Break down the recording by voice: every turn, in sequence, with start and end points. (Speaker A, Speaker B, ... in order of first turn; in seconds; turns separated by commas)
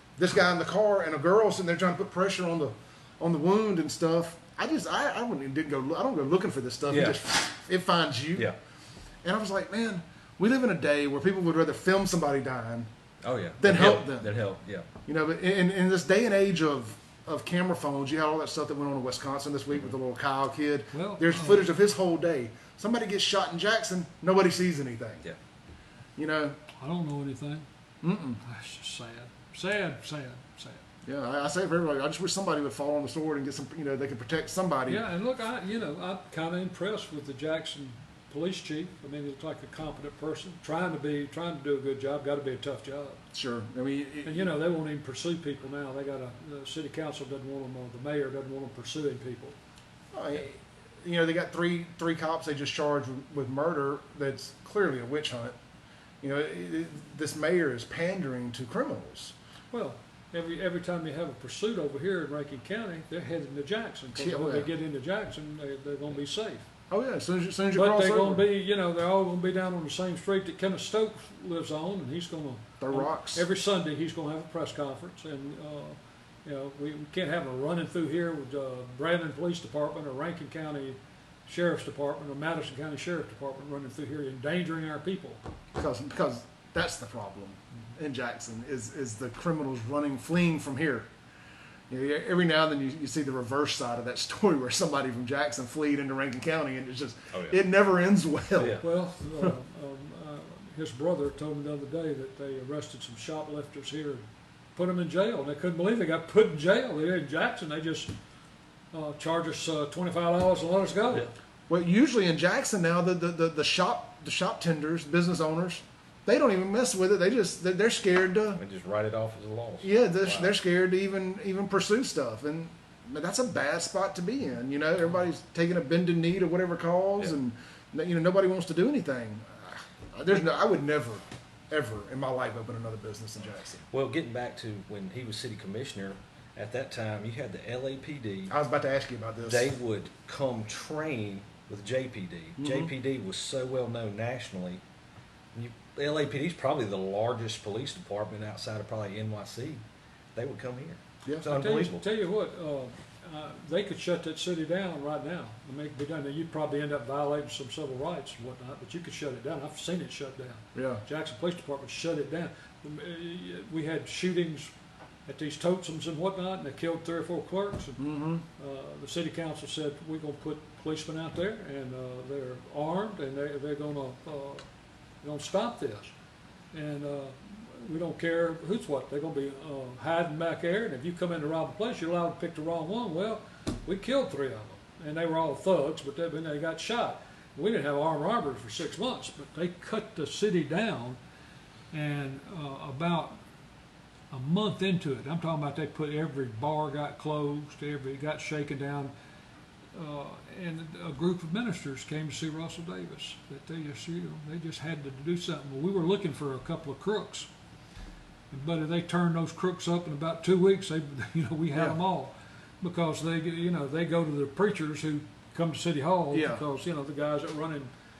Speaker A: 0.2-8.5, Speaker B: 6.9-7.2, Speaker A: 9.2-12.9, Speaker B: 13.2-14.9, Speaker A: 13.6-14.3, Speaker A: 15.0-25.2, Speaker C: 20.9-21.7, Speaker A: 26.2-26.6, Speaker C: 26.8-27.6, Speaker A: 28.0-28.4, Speaker C: 28.4-30.8, Speaker A: 31.0-35.0, Speaker C: 34.9-43.2, Speaker A: 43.3-44.5, Speaker C: 44.2-49.5, Speaker A: 50.1-55.5, Speaker A: 56.2-59.3, Speaker C: 59.7-66.6, Speaker A: 64.1-64.7, Speaker A: 66.9-68.4, Speaker C: 67.7-85.4, Speaker A: 72.8-73.4, Speaker A: 85.7-91.1, Speaker A: 91.9-98.8, Speaker B: 97.3-97.6, Speaker B: 98.6-98.8, Speaker C: 98.8-104.2, Speaker C: 104.8-108.1, Speaker C: 108.9-111.3, Speaker A: 111.7-118.6, Speaker B: 118.6-120.5, Speaker A: 119.8-133.8, Speaker B: 133.9-138.5, Speaker A: 138.5-139.7, Speaker B: 139.4-144.8, Speaker A: 142.6-142.9, Speaker B: 145.5-149.8, Speaker B: 150.3-152.1, Speaker C: 151.4-164.7, Speaker A: 160.7-161.0, Speaker C: 165.3-168.0, Speaker A: 168.0-168.4, Speaker C: 168.5-174.6, Speaker C: 175.2-176.1, Speaker C: 176.7-191.2, Speaker C: 191.9-193.4, Speaker C: 194.3-199.1, Speaker C: 199.9-207.5, Speaker C: 208.5-217.9, Speaker A: 216.3-216.6